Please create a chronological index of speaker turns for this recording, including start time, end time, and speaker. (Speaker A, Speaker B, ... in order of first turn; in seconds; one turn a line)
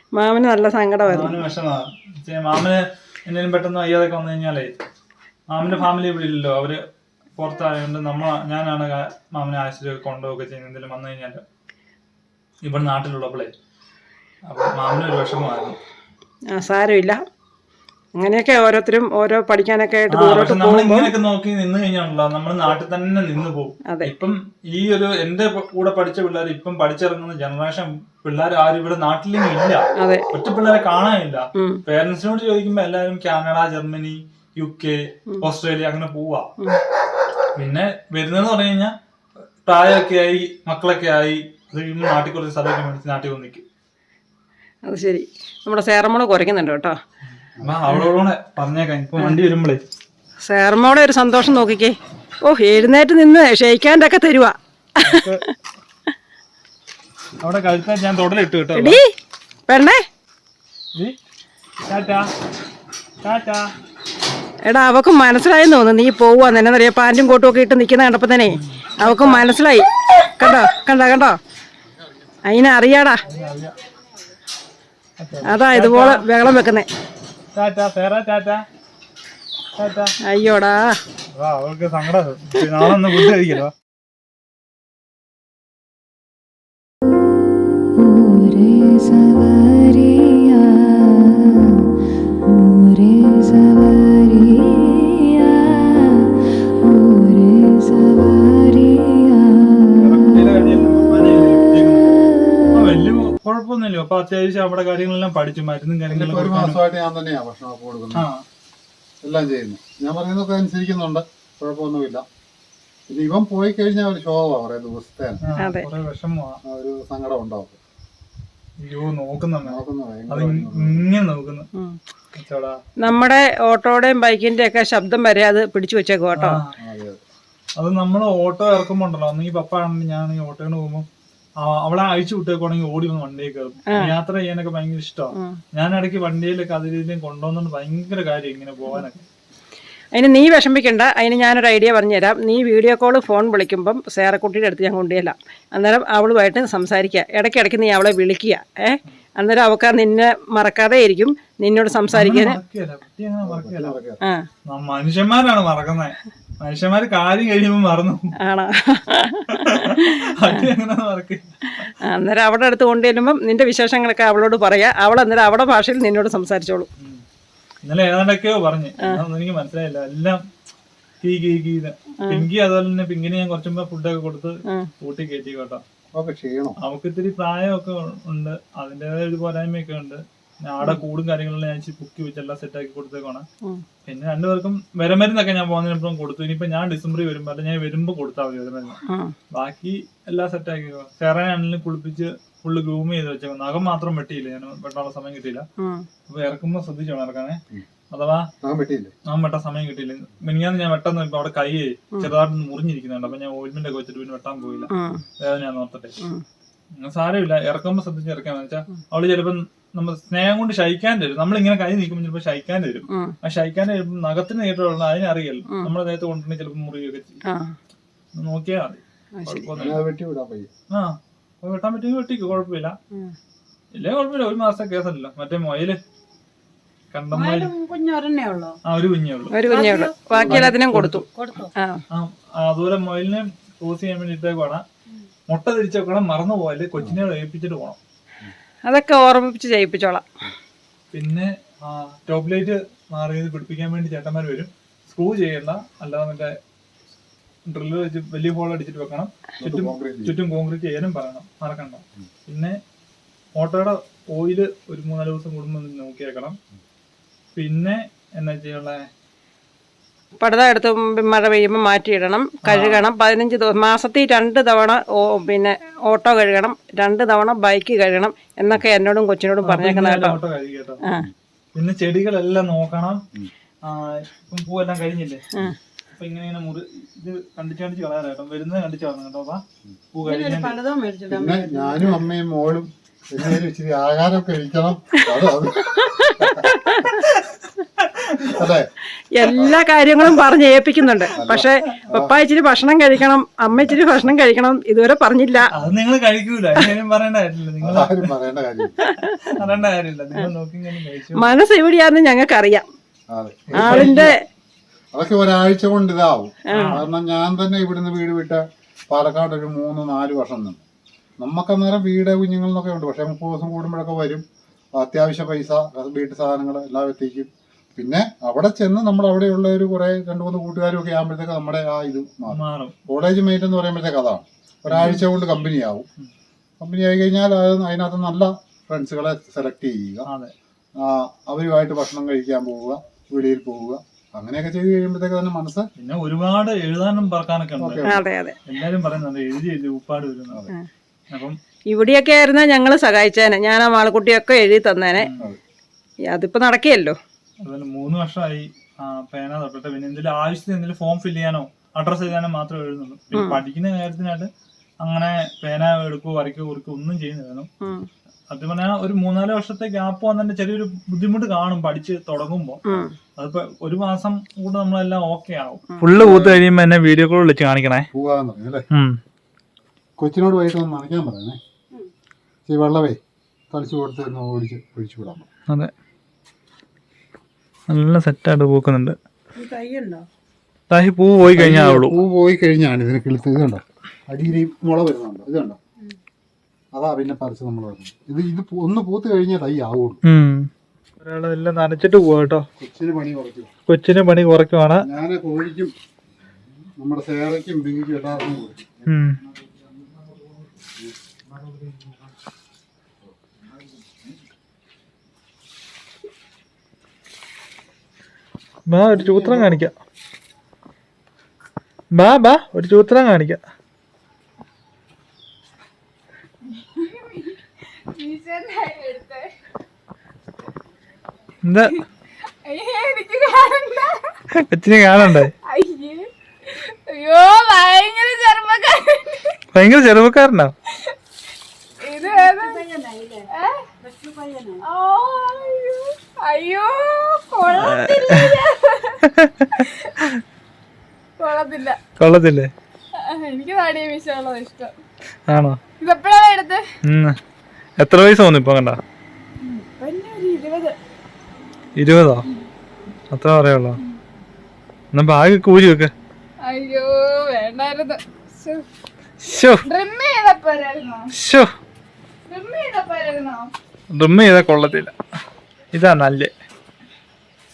Speaker A: 0.1-1.4
Speaker B: 1.1-4.7
Speaker B: 5.5-6.8
Speaker B: 7.3-11.4
Speaker B: 12.6-13.5
Speaker B: 14.4-15.8
Speaker A: 16.5-17.2
Speaker A: 18.2-21.1
Speaker B: 20.1-36.5
Speaker A: 30.0-30.2
Speaker A: 31.6-31.8
Speaker B: 37.5-38.9
Speaker B: 39.6-43.6
Speaker A: 44.8-46.9
Speaker B: 47.2-49.8
Speaker A: 50.4-55.3
Speaker B: 55.0-55.4
Speaker B: 57.4-59.0
Speaker A: 58.7-59.0
Speaker A: 59.7-60.0
Speaker B: 61.9-62.3
Speaker B: 63.2-63.7
Speaker A: 64.7-71.4
Speaker B: 68.5-69.5
Speaker A: 72.5-73.2
Speaker B: 73.3-73.7
Speaker B: 75.2-76.2
Speaker A: 75.5-76.8
Speaker B: 77.5-78.6
Speaker B: 79.8-80.1
Speaker A: 80.2-81.0
Speaker B: 81.3-83.7
Speaker C: 88.8-91.2
Speaker C: 98.3-99.2
Speaker B: 99.9-102.1
Speaker B: 102.7-106.8
Speaker D: 106.1-108.3
Speaker B: 108.1-108.4
Speaker D: 109.2-112.2
Speaker D: 113.1-115.4
Speaker B: 115.4-116.6
Speaker A: 115.6-115.9
Speaker D: 116.6-117.8
Speaker B: 118.8-121.7
Speaker D: 119.6-121.0
Speaker B: 122.3-122.8
Speaker A: 123.0-126.6
Speaker B: 126.3-126.7
Speaker D: 126.8-127.2
Speaker B: 127.8-131.1
Speaker B: 131.6-139.2
Speaker A: 140.1-152.6
Speaker B: 152.1-154.0
Speaker D: 153.4-154.2
Speaker A: 154.2-154.5
Speaker B: 154.7-158.3
Speaker A: 158.4-160.7
Speaker B: 159.5-161.5
Speaker A: 162.0-166.9
Speaker B: 167.0-167.2
Speaker B: 167.8-170.4
Speaker B: 171.2-175.8
Speaker D: 176.1-176.8
Speaker B: 176.8-183.4
Speaker B: 184.0-189.0
Speaker A: 189.1-189.3
Speaker B: 189.5-195.7
Speaker A: 195.8-196.1
Speaker B: 196.3-197.6
Speaker B: 198.1-198.5
Speaker D: 198.6-199.1
Speaker B: 199.2-206.2
Speaker A: 204.9-205.2
Speaker B: 207.0-217.4
Speaker A: 217.5-217.7
Speaker B: 218.3-220.0
Speaker A: 219.4-219.7
Speaker D: 219.8-220.7
Speaker B: 220.9-222.9
Speaker B: 223.9-226.0
Speaker B: 227.1-227.7
Speaker E: 227.3-228.8
Speaker B: 228.8-229.6
Speaker A: 229.5-231.2
Speaker E: 229.6-230.7
Speaker B: 230.4-231.2
Speaker E: 231.3-231.7
Speaker A: 231.8-232.0
Speaker B: 232.1-234.8
Speaker B: 235.5-238.0
Speaker A: 238.9-240.2
Speaker B: 241.1-246.5
Speaker B: 247.7-252.8
Speaker D: 249.6-250.3
Speaker B: 253.6-256.6
Speaker B: 257.5-259.1
Speaker A: 260.4-270.4
Speaker B: 262.6-263.0
Speaker B: 269.6-271.0
Speaker B: 271.7-273.2
Speaker B: 273.8-275.4
Speaker B: 276.1-280.8
Speaker E: 280.2-282.3
Speaker D: 281.3-286.7
Speaker A: 285.3-287.2
Speaker B: 287.0-288.7
Speaker D: 288.4-288.9
Speaker A: 289.3-295.7
Speaker D: 289.5-289.8
Speaker D: 291.3-292.3
Speaker B: 295.7-298.3
Speaker D: 297.8-299.0
Speaker B: 299.2-301.5
Speaker A: 301.4-302.8
Speaker D: 303.3-304.3
Speaker B: 303.7-304.3
Speaker A: 303.7-304.4
Speaker D: 305.1-310.8
Speaker A: 306.7-307.0
Speaker B: 306.7-307.0
Speaker D: 311.4-314.4
Speaker D: 314.9-326.1
Speaker B: 322.5-322.9
Speaker B: 324.9-325.2
Speaker D: 326.8-330.3
Speaker B: 330.3-330.5
Speaker D: 330.9-335.9
Speaker B: 336.0-340.7
Speaker D: 337.8-338.2
Speaker A: 338.1-338.6
Speaker B: 341.3-341.6
Speaker A: 341.9-345.3
Speaker B: 345.2-345.5
Speaker A: 346.3-347.1
Speaker B: 347.6-354.5
Speaker A: 353.3-353.6
Speaker B: 355.0-357.7
Speaker A: 357.8-358.1
Speaker B: 358.5-362.8
Speaker A: 362.9-363.1
Speaker B: 363.4-368.1
Speaker D: 366.2-366.6
Speaker D: 368.1-368.9
Speaker B: 368.9-369.2
Speaker D: 370.2-371.6
Speaker D: 372.6-373.2
Speaker D: 373.7-375.4
Speaker B: 377.9-379.1
Speaker E: 379.6-380.2
Speaker B: 380.9-382.2
Speaker D: 381.4-385.8
Speaker D: 386.9-390.2
Speaker B: 390.2-392.7
Speaker D: 392.8-393.7
Speaker B: 393.9-395.1
Speaker D: 395.0-395.9
Speaker D: 397.0-399.1
Speaker B: 399.1-399.4
Speaker D: 401.6-402.1
Speaker B: 408.9-409.9
Speaker D: 409.1-409.9
Speaker B: 412.1-413.6
Speaker C: 416.7-419.5
Speaker B: 421.6-422.0
Speaker C: 422.6-424.3
Speaker B: 424.5-425.5
Speaker C: 425.6-429.6
Speaker B: 429.7-430.7
Speaker C: 432.0-432.8
Speaker E: 432.2-433.5
Speaker C: 433.6-433.9
Speaker E: 434.0-434.8
Speaker C: 434.8-439.2
Speaker B: 437.7-438.5
Speaker B: 439.2-440.4
Speaker C: 441.4-442.0
Speaker B: 442.2-442.7
Speaker C: 443.2-444.9
Speaker B: 445.5-445.8
Speaker C: 446.0-446.8
Speaker B: 447.0-447.4
Speaker B: 448.0-449.0
Speaker A: 449.6-450.9
Speaker B: 451.9-452.4
Speaker B: 453.3-454.0
Speaker B: 455.1-456.1
Speaker C: 456.6-458.8
Speaker B: 459.4-459.8
Speaker C: 459.9-461.3
Speaker B: 461.3-461.7
Speaker C: 462.5-463.7
Speaker B: 464.1-465.1
Speaker B: 465.9-466.5